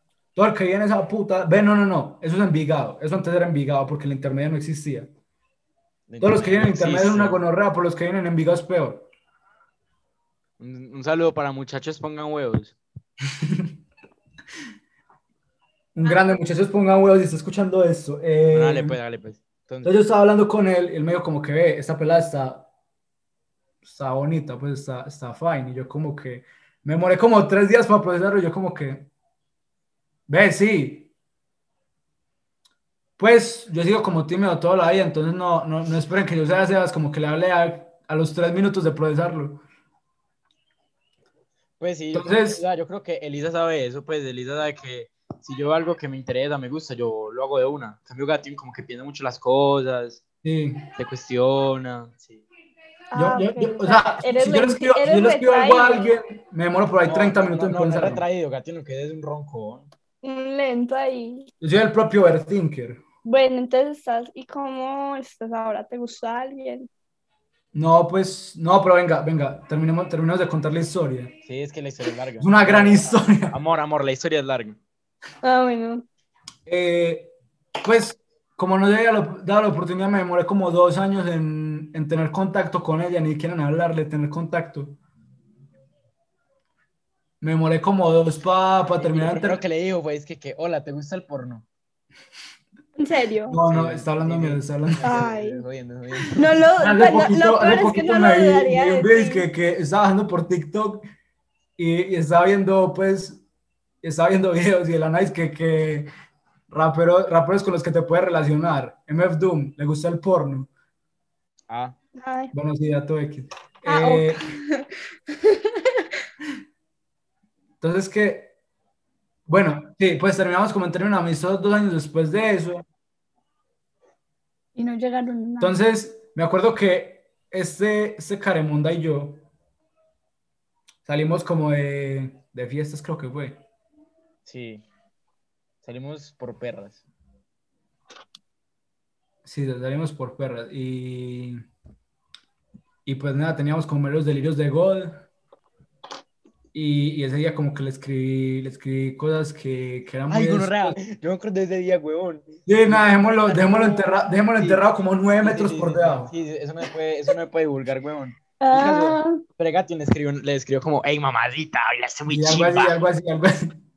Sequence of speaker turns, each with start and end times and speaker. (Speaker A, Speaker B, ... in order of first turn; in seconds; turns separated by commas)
Speaker A: 0.3-5.1, Speaker B: 6.1-7.4, Speaker A: 6.2-9.1, Speaker B: 10.6-12.8, Speaker A: 13.3-13.7, Speaker A: 15.9-19.0, Speaker C: 16.1-16.4, Speaker B: 18.5-19.9, Speaker A: 19.9-22.7, Speaker A: 23.8-29.1, Speaker A: 30.3-31.1, Speaker A: 33.2-39.6, Speaker B: 41.8-50.2, Speaker A: 42.1-42.6, Speaker A: 50.4-50.8, Speaker B: 51.0-52.5, Speaker C: 53.1-56.2, Speaker A: 53.1-58.2, Speaker B: 57.0-59.9, Speaker C: 60.2-61.5, Speaker A: 61.6-63.0, Speaker C: 63.2-66.9, Speaker A: 67.7-71.3, Speaker B: 71.5-74.8, Speaker A: 72.4-73.5, Speaker C: 75.4-76.0, Speaker A: 76.7-77.3, Speaker A: 77.8-85.0, Speaker A: 87.4-89.6, Speaker B: 89.0-91.7, Speaker C: 93.0-93.6, Speaker A: 93.5-95.2, Speaker B: 93.7-96.5, Speaker C: 95.0-95.6, Speaker C: 96.2-99.5, Speaker A: 96.8-101.0, Speaker A: 101.8-103.4, Speaker A: 104.0-106.1, Speaker A: 106.7-110.7, Speaker B: 111.7-112.0, Speaker C: 112.2-112.5, Speaker A: 112.5-114.4, Speaker C: 113.9-116.1, Speaker A: 117.8-118.5, Speaker A: 119.5-122.8, Speaker C: 124.8-125.8, Speaker A: 125.6-129.4, Speaker A: 131.1-133.6, Speaker B: 134.5-134.8, Speaker B: 135.8-137.0, Speaker A: 139.4-141.6, Speaker A: 143.1-145.3, Speaker A: 146.7-151.0, Speaker B: 150.3-154.8, Speaker A: 152.7-156.3, Speaker B: 155.4-163.0, Speaker C: 158.6-159.4, Speaker A: 162.3-163.8